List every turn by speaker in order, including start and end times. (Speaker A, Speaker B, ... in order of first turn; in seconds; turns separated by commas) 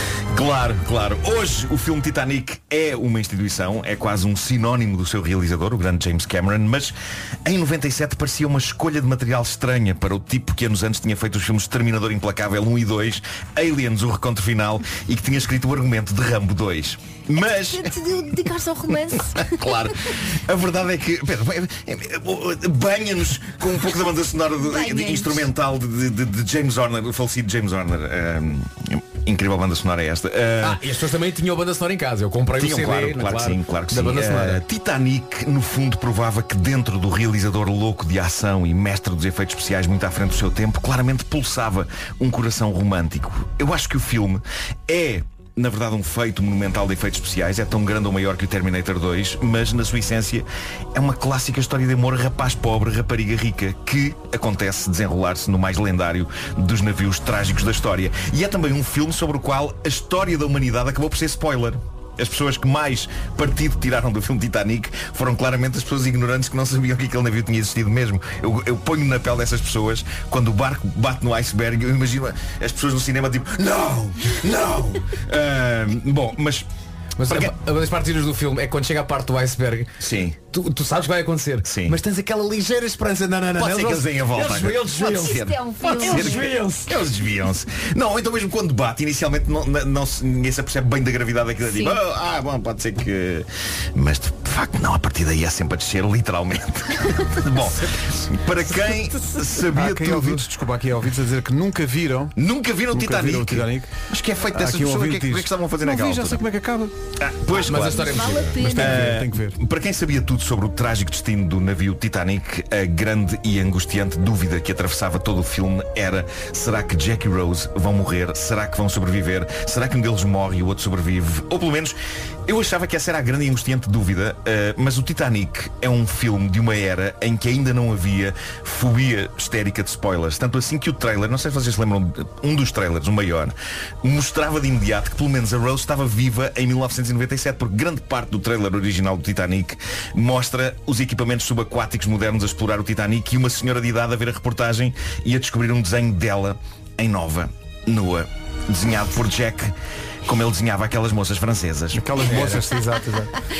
Speaker A: 0.3-18.4, Speaker B: 17.5-19.9, Speaker A: 19.3-30.8, Speaker B: 24.6-25.5, Speaker C: 30.6-34.6, Speaker A: 32.5-76.7, Speaker C: 77.2-80.0, Speaker A: 77.2-77.5, Speaker A: 80.0-80.4, Speaker C: 80.5-87.0, Speaker A: 81.6-82.0, Speaker A: 83.5-100.5, Speaker B: 84.8-86.5, Speaker B: 91.7-92.0, Speaker C: 97.6-98.2, Speaker D: 99.7-102.3, Speaker A: 102.3-106.5, Speaker D: 102.9-104.0, Speaker D: 104.5-106.9, Speaker A: 107.2-149.7, Speaker C: 107.5-108.7, Speaker B: 107.8-109.0, Speaker D: 108.6-109.6, Speaker A: 150.2-152.5, Speaker D: 151.9-153.3, Speaker C: 152.2-152.6